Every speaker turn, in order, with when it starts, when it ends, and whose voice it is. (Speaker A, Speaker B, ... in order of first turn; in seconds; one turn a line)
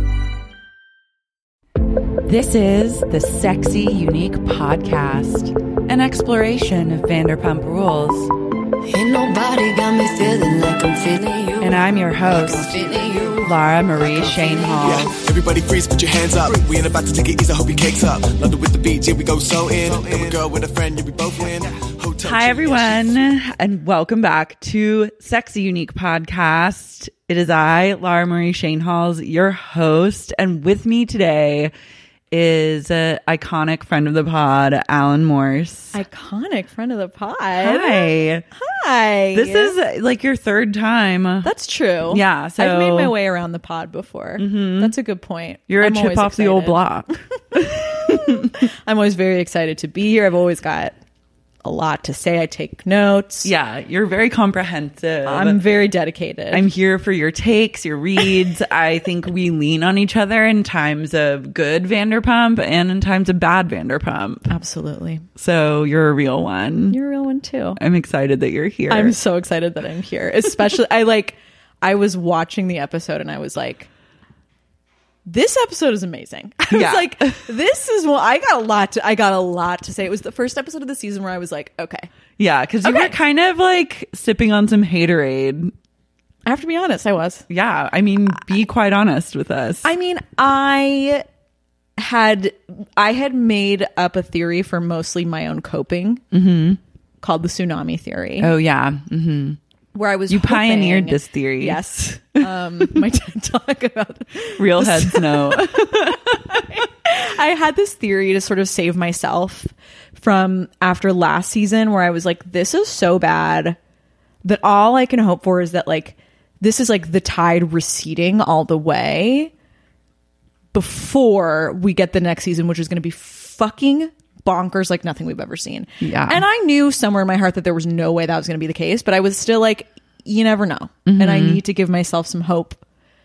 Speaker A: 2.2-8.3
Speaker B: 8.8-15.1
Speaker A: 11.6-15.1
Speaker C: 14.7-23.3
Speaker A: 22.2-31.7
Speaker A: 32.3-36.0
Speaker D: 35.9-39.8
Speaker A: 37.6-38.4
Speaker A: 39.3-41.5
Speaker D: 41.4-46.8
Speaker A: 42.1-43.1
Speaker A: 44.4-44.9
Speaker A: 45.7-48.5
Speaker D: 47.5-50.9
Speaker D: 51.6-53.5
Speaker A: 53.4-55.6
Speaker D: 55.2-56.6
Speaker A: 56.5-64.5
Speaker D: 64.5-65.2
Speaker A: 65.4-67.0
Speaker D: 66.9-67.8
Speaker A: 67.8-69.2
Speaker D: 68.9-73.9
Speaker D: 75.2-82.1
Speaker A: 76.7-77.4
Speaker A: 82.4-85.7
Speaker D: 82.8-83.1
Speaker D: 86.5-87.4
Speaker A: 87.5-89.8
Speaker D: 89.8-91.2
Speaker D: 92.0-96.2
Speaker A: 96.3-96.8
Speaker D: 97.2-98.5
Speaker A: 98.4-99.6
Speaker D: 99.9-113.8
Speaker A: 100.3-101.8
Speaker A: 102.4-103.0
Speaker A: 104.6-106.5
Speaker D: 114.4-119.5
Speaker D: 120.7-132.8
Speaker A: 126.0-126.4
Speaker A: 131.1-131.6